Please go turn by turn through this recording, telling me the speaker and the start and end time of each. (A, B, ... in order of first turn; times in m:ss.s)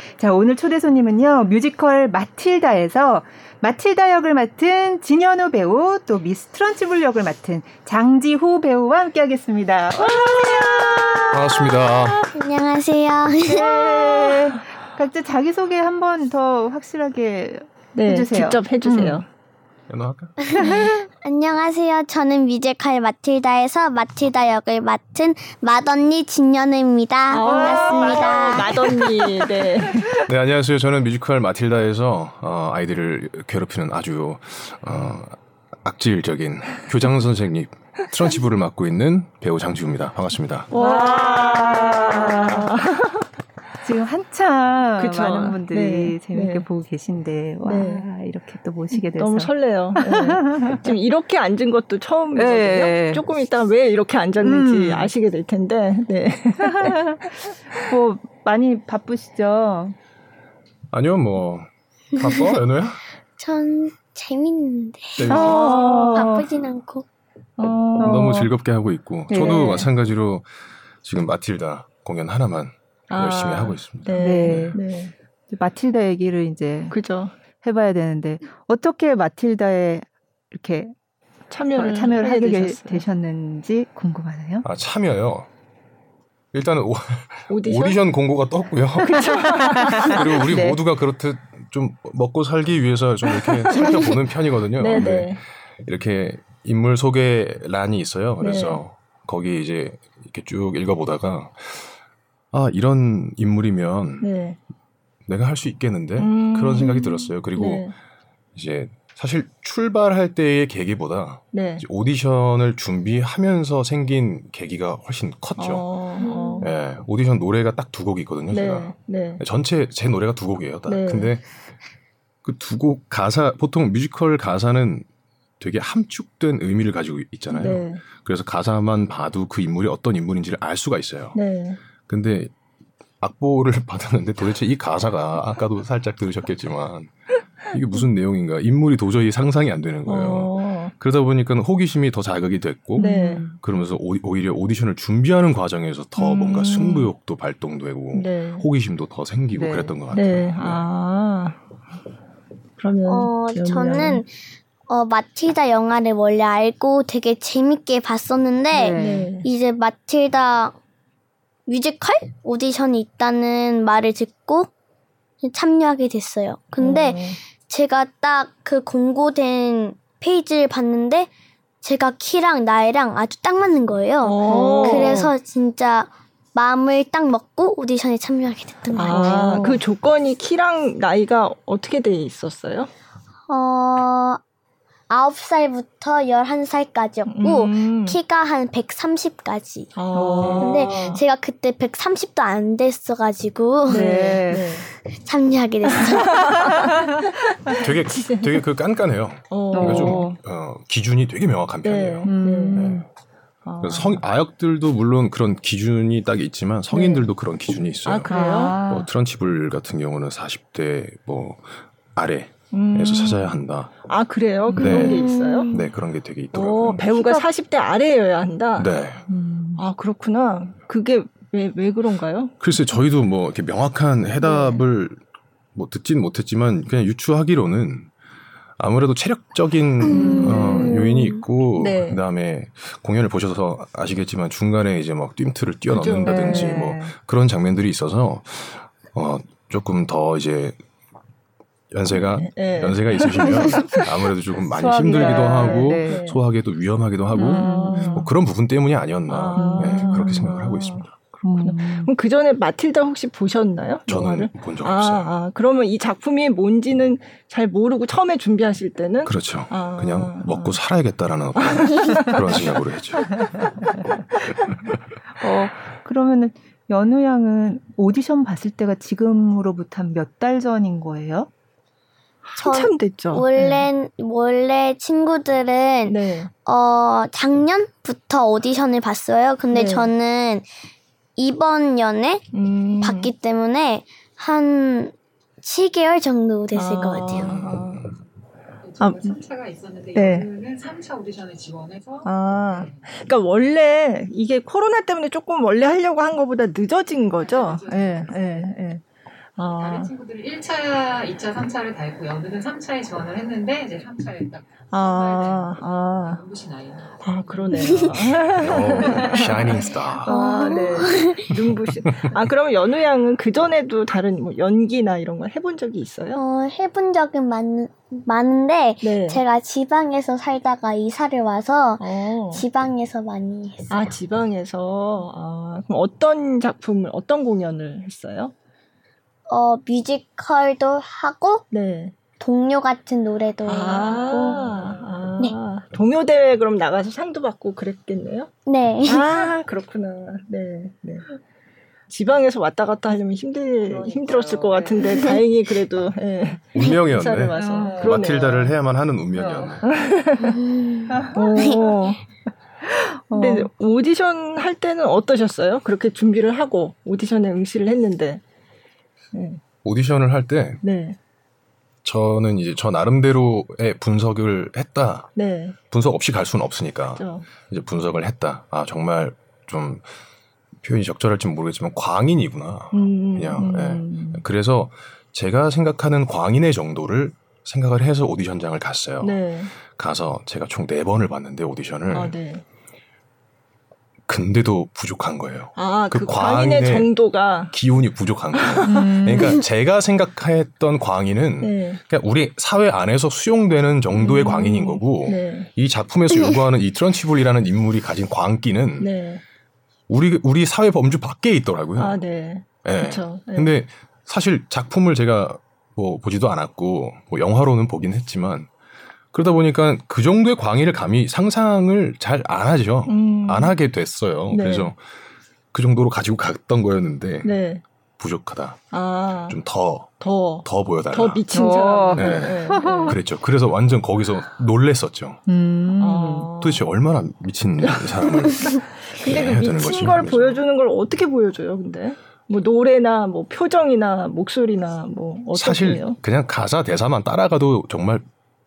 0:00.2-0:11.3 A
0:10.0-0:12.1 B
0:11.3-0:12.3 C
0:12.3-0:13.9 D
0:13.5-0:19.2 A
0:13.6-0:14.6 B
0:17.9-0:19.3 B
0:19.9-0:20.4 C
0:20.5-0:28.9 D
0:20.6-0:21.0 A
0:27.3-0:30.1 B
0:27.4-0:29.4 A
0:30.2-0:40.7 C
0:40.7-0:43.3 B
0:40.7-0:42.7 A
0:43.8-0:50.9 A
0:45.0-0:46.6 B
0:47.6-0:48.1 B
0:48.9-0:57.0 B
0:52.4-0:53.2 A
0:54.4-0:55.1 A
0:56.7-0:59.9 A
1:00.9-1:03.0 C
1:03.4-1:07.0 D
1:05.2-1:05.6 C
1:05.3-1:06.4 B
1:05.3-1:06.4 A
1:07.6-1:08.5 B
1:08.0-1:08.5 A
1:08.0-1:14.8 C
1:09.3-1:09.9 A
1:13.1-1:15.1 B
1:14.1-1:14.8 A
1:15.5-1:17.0 A
1:16.9-1:17.3 B
1:17.6-1:20.9 A
1:21.5-1:23.0 B
1:21.8-1:24.6 A
1:24.6-1:25.5 C
1:26.5-1:42.0 C
1:27.5-1:28.0 B
1:29.0-1:30.4 B
1:29.5-1:30.8 A
1:34.8-1:35.4 B
1:38.4-1:38.8 B
1:42.5-1:44.3 C
1:44.2-1:44.6 B
1:45.2-1:47.9 C
1:46.2-1:47.9 B
1:48.5-1:56.0 C
1:51.5-1:51.8 B
1:55.6-1:56.7 B
1:56.2-1:56.6 A
1:56.2-1:56.6 D
1:56.6-2:01.5 C
1:58.5-1:59.4 B
2:00.9-2:01.3 B
2:02.4-2:05.0 C
2:05.6-2:11.4 C
2:07.5-2:08.0 B
2:11.3-2:11.8 B
2:12.0-2:12.5 C
2:13.2-2:30.8 C
2:20.0-2:20.9 B
2:23.0-2:23.6 A
2:23.0-2:23.5 B
2:26.2-2:27.1 B
2:28.1-2:28.6 B
2:29.5-2:30.0 A
2:30.1-2:31.6 B
2:32.8-2:34.2 B
2:33.1-2:34.3 D
2:34.9-2:40.8 D
2:38.7-2:39.3 A
2:39.0-2:39.4 B
2:41.7-2:44.7 D
2:45.4-2:51.3 D
2:46.8-2:47.4 B
2:51.8-2:59.8 D
2:54.2-2:55.3 B
2:54.4-2:55.2 A
2:59.0-3:02.9 B
2:59.0-2:59.8 A
3:03.5-3:04.4 D
3:05.1-3:09.9 D
3:07.3-3:08.2 B
3:09.9-3:11.2 B
3:10.1-3:11.2 A
3:10.6-3:14.3 D
3:13.9-3:14.9 B
3:13.9-3:14.7 A
3:15.1-3:16.7 D
3:16.0-3:17.0 B
3:17.6-3:18.6 B
3:17.7-3:23.1 C
3:19.5-3:20.3 B
3:19.7-3:20.4 A
3:21.8-3:22.9 B
3:22.2-3:23.0 A
3:23.6-3:24.2 B
3:23.8-3:33.9 C
3:26.9-3:27.3 B
3:28.0-3:28.8 B
3:28.3-3:29.1 A
3:32.7-3:35.7 B
3:34.7-3:35.6 A
3:34.8-3:37.0 C
3:35.3-3:35.7 D
3:36.5-3:38.9 B
3:38.8-3:39.2 C
3:39.3-3:39.8 A
3:39.8-3:42.5 B
3:42.6-3:45.2 C
3:45.7-3:48.1 C
3:48.8-4:00.8 C
3:50.1-3:52.2 B
3:50.3-3:50.6 A
3:55.9-3:57.1 B
4:01.9-4:11.1 C
4:02.1-4:04.2 B
4:04.8-4:06.2 A
4:04.8-4:06.4 B
4:07.3-4:08.3 A
4:07.4-4:08.3 B
4:09.3-4:11.0 B
4:09.6-4:10.5 A
4:11.4-4:12.1 A
4:11.6-4:20.8 B
4:14.1-4:15.3 C
4:19.2-4:23.5 C
4:21.6-4:22.6 B
4:25.4-4:31.5 A
4:32.4-4:33.8 B
4:32.6-4:40.6 D
4:36.0-4:36.5 B
4:39.7-4:40.1 B
4:41.4-4:42.4 D
4:42.5-4:43.3 B
4:43.0-4:47.6 D
4:46.7-4:48.0 B
4:47.4-4:48.1 C
4:48.8-4:53.0 E
4:49.0-4:49.4 B
4:50.1-4:50.5 B
4:52.2-4:59.0 B
4:57.5-4:58.4 E
4:59.6-5:00.1 B
4:59.8-5:09.7 E
5:04.9-5:06.4 B
5:07.2-5:16.4 B
5:08.6-5:10.3 C
5:10.2-5:11.5 D
5:16.3-5:24.1 D
5:19.0-5:19.4 B
5:22.0-5:22.6 B
5:23.9-5:28.5 B
5:29.5-5:31.6 D
5:31.7-5:32.1 B
5:32.4-5:34.8 D
5:33.7-5:38.5 B
5:34.3-5:34.7 A
5:34.8-5:35.1 E
5:38.6-5:39.3 D
5:39.1-5:41.2 B
5:42.1-5:48.8 B
5:43.8-5:45.4 E
5:46.7-5:49.8 C
5:47.6-5:47.9 A
5:49.4-5:49.8 E
5:49.8-5:50.5 B
5:50.4-5:51.8 D
5:51.1-5:51.4 A
5:51.3-5:52.4 B
5:53.1-5:53.7 A
5:53.3-5:58.4 B
5:59.3-5:59.6 B
5:59.8-6:00.8 C
6:00.8-6:01.2 B
6:02.0-6:05.3 C
6:05.4-6:05.8 B
6:05.9-6:10.1 C
6:07.2-6:07.5 B
6:10.8-6:22.4 C
6:12.9-6:14.4 B
6:19.2-6:19.7 B
6:22.1-6:22.6 B
6:24.3-6:27.1 C
6:25.8-6:27.7 B
6:27.7-6:39.1 C
6:28.5-6:29.1 B
6:28.9-6:29.6 A
6:31.6-6:32.0 B
6:34.2-6:35.7 B
6:39.0-6:39.4 B
6:40.1-6:42.2 C
6:42.0-6:43.7 B
6:42.8-6:48.7 C
6:49.3-6:55.0 C
6:53.0-6:53.8 B
6:54.5-6:54.9 B
6:55.7-6:57.6 C
6:57.4-6:57.8 B
6:58.2-6:58.9 C
6:58.9-6:59.6 B
6:59.5-7:01.4 C
7:00.2-7:03.2 B
7:01.5-7:03.2 A
7:02.1-7:05.4 C
7:05.5-7:06.5 A
7:06.0-7:06.8 B
7:06.6-7:10.6 C
7:07.8-7:16.2 B
7:15.5-7:18.2 C